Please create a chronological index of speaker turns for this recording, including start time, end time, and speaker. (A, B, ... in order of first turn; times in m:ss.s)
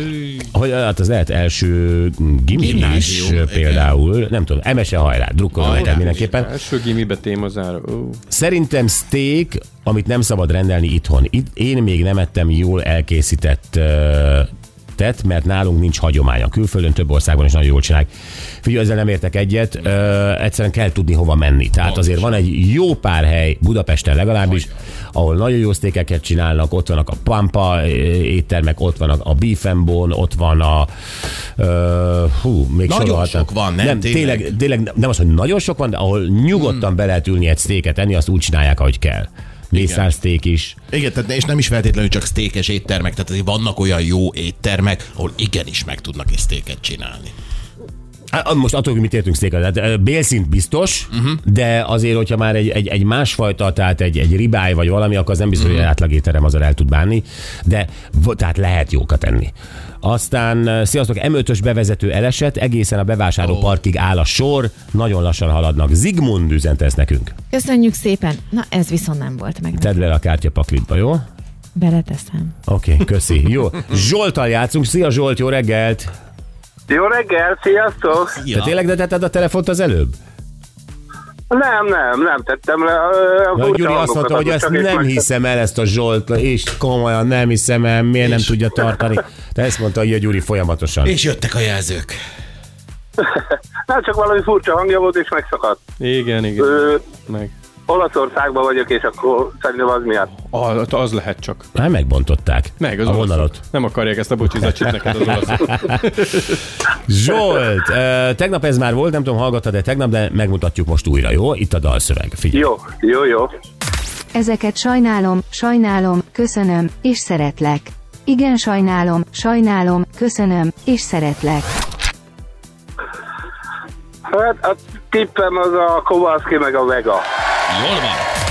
0:00.2-0:06.5 A
0:02.5-0:03.9 B
0:05.6-0:06.1 B
0:05.6-0:08.2 C
0:08.3-0:18.1 A
0:18.6-0:30.9 A
0:21.8-0:22.4 B
0:24.4-0:24.7 B
0:31.6-0:40.8 A
0:32.9-0:34.5 B
0:36.5-0:36.9 B
0:39.7-0:40.1 B
0:40.9-0:47.3 B
0:48.3-1:07.3 A
0:51.1-0:51.4 B
0:55.6-0:55.9 B
1:03.4-1:03.7 B
1:07.5-1:10.0 D
1:09.8-1:11.2 A
1:11.7-1:12.5 D
1:12.7-1:16.1 A
1:16.9-1:18.3 E
1:18.3-1:18.7 B
1:18.5-1:20.2 A
1:21.5-1:25.2 E
1:23.6-1:31.2 A
1:28.2-1:28.5 B
1:31.0-1:32.2 B
1:33.2-1:35.8 E
1:36.0-1:37.5 C
1:36.7-1:36.9 E
1:37.9-1:40.3 E
1:40.4-1:41.7 C
1:41.7-1:43.6 A
1:42.8-1:46.5 C
1:47.1-1:52.7 A
1:52.5-1:53.5 E
1:54.3-2:01.7 F
2:04.3-2:07.2 E
2:07.7-2:08.3 B